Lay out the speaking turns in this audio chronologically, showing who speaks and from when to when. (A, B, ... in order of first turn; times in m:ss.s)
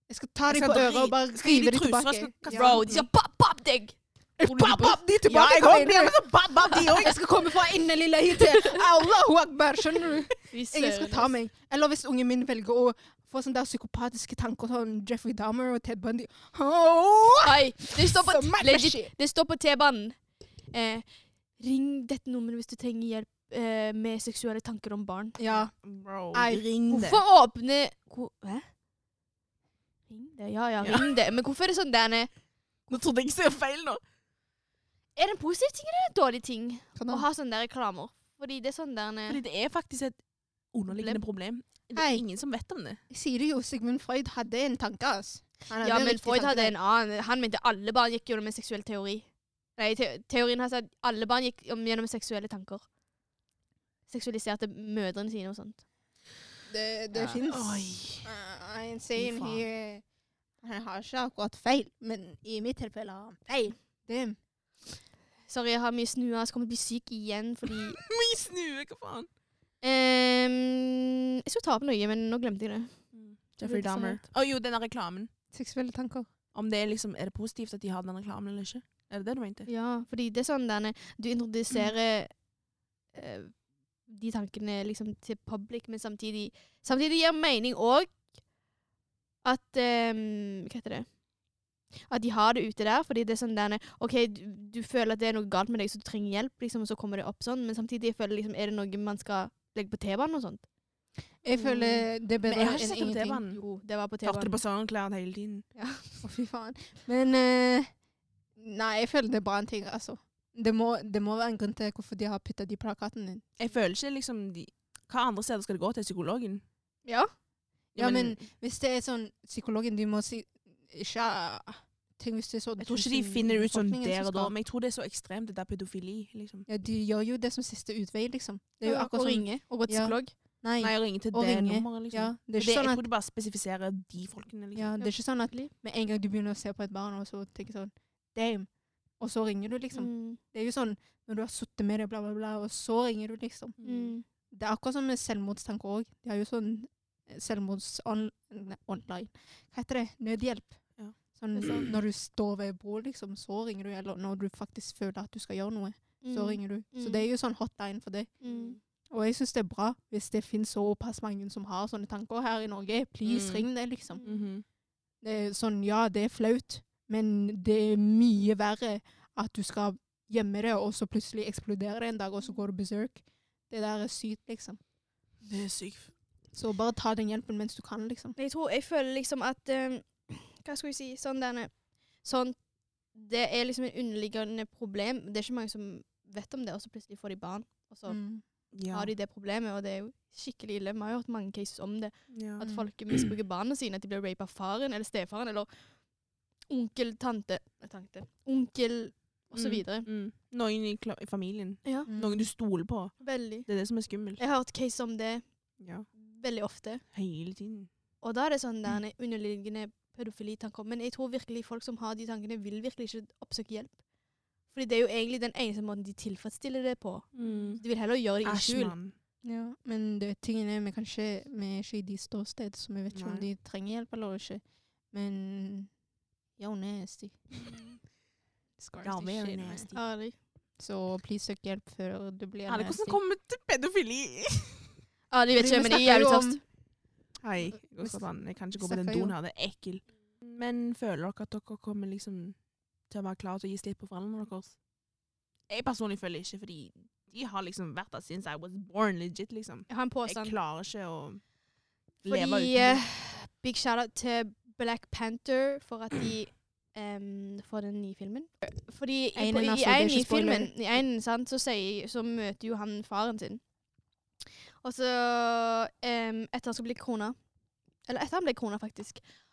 0:00.1-0:02.8 A
0:00.5-0:03.1 B
0:02.5-0:05.0 C
0:04.4-0:19.1 A
0:04.5-0:07.2 B
0:08.5-0:08.8 C
0:10.5-0:11.3 C
0:17.4-0:20.2 C
0:20.7-0:21.0 C
0:21.6-0:25.4 C
0:25.4-0:25.7 A
0:25.5-0:27.2 B
0:26.3-0:26.6 A
0:26.9-0:28.7 C
0:30.1-0:32.3 C
0:30.8-0:31.1 B
0:32.9-0:34.0 B
0:35.2-0:39.4 C
0:37.0-0:37.2 A
0:39.3-0:40.2 B
0:40.7-0:43.0 B
0:40.9-0:41.2 C
0:41.9-0:42.2 A
0:43.1-0:46.7 A
0:45.8-0:52.8 C
0:54.1-0:55.8 C
0:56.7-1:00.0 A
0:57.4-0:58.2 B
0:59.2-0:59.6 B
1:00.6-1:04.4 A
1:05.5-1:08.0 C
1:08.0-1:09.3 B
1:09.8-1:13.0 C
1:13.1-1:15.3 B
1:13.6-1:14.2 C
1:15.5-1:16.3 A
1:16.5-1:19.7 B
1:19.7-1:22.4 C
1:23.1-1:28.2 C
1:29.4-1:31.2 C
1:32.1-1:40.6 C
1:41.4-1:43.4 A
1:41.5-1:42.0 C
1:42.4-1:43.6 B
1:43.4-1:44.6 C
1:44.2-1:45.6 B
1:45.8-1:46.1 C
1:46.2-1:47.9 A
1:48.6-1:53.4 A
1:53.6-1:56.6 B
1:57.0-1:57.3 C
1:57.9-1:58.4 B
1:58.0-2:04.5 A
2:02.8-2:06.7 B
2:06.7-2:13.0 A
2:08.8-2:10.3 C
2:10.8-2:15.1 B
2:14.7-2:23.8 A
2:19.9-2:20.4 C
2:23.8-2:24.1 B
2:23.8-2:24.2 C
2:24.5-2:38.5 A
2:31.5-2:31.9 C
2:36.2-2:37.3 C
2:38.4-2:38.8 C
2:38.4-2:38.7 B
2:39.1-2:44.2 A
2:43.2-2:43.7 B
2:44.1-2:44.5 C
2:44.2-2:44.6 B
2:45.2-2:54.8 A
2:55.4-2:56.1 B
2:56.5-2:58.4 A
2:58.4-3:02.6 C
3:03.1-3:15.8 C
3:08.1-3:08.4 A
3:08.7-3:09.1 B
3:12.3-3:13.3 B
3:16.7-3:20.1 C
3:19.5-3:24.4 B
3:21.8-3:22.1 C
3:22.1-3:22.5 A
3:23.2-3:23.7 C
3:24.4-3:25.4 C
3:25.8-3:26.0 B
3:26.1-3:27.0 C
3:27.1-3:27.9 B
3:28.2-3:34.0 C
3:34.7-3:38.9 C
3:37.3-3:37.8 B
3:38.4-3:39.1 B
3:39.4-3:45.9 A
3:43.1-3:43.4 B
3:46.6-3:47.5 A
3:48.8-3:49.9 A
3:49.0-3:49.9 B
3:49.9-3:50.4 C
3:50.8-3:53.2 A
3:52.7-3:54.9 B
3:55.3-3:56.6 C
3:55.6-3:56.6 A
3:57.4-4:02.6 B
3:58.8-3:59.3 A
4:03.1-4:04.8 B
4:05.7-4:11.4 B
4:09.9-4:10.5 C
4:12.2-4:13.0 B
4:12.2-4:23.6 C
4:19.4-4:20.7 A
4:24.8-4:27.4 C
4:28.0-4:29.2 C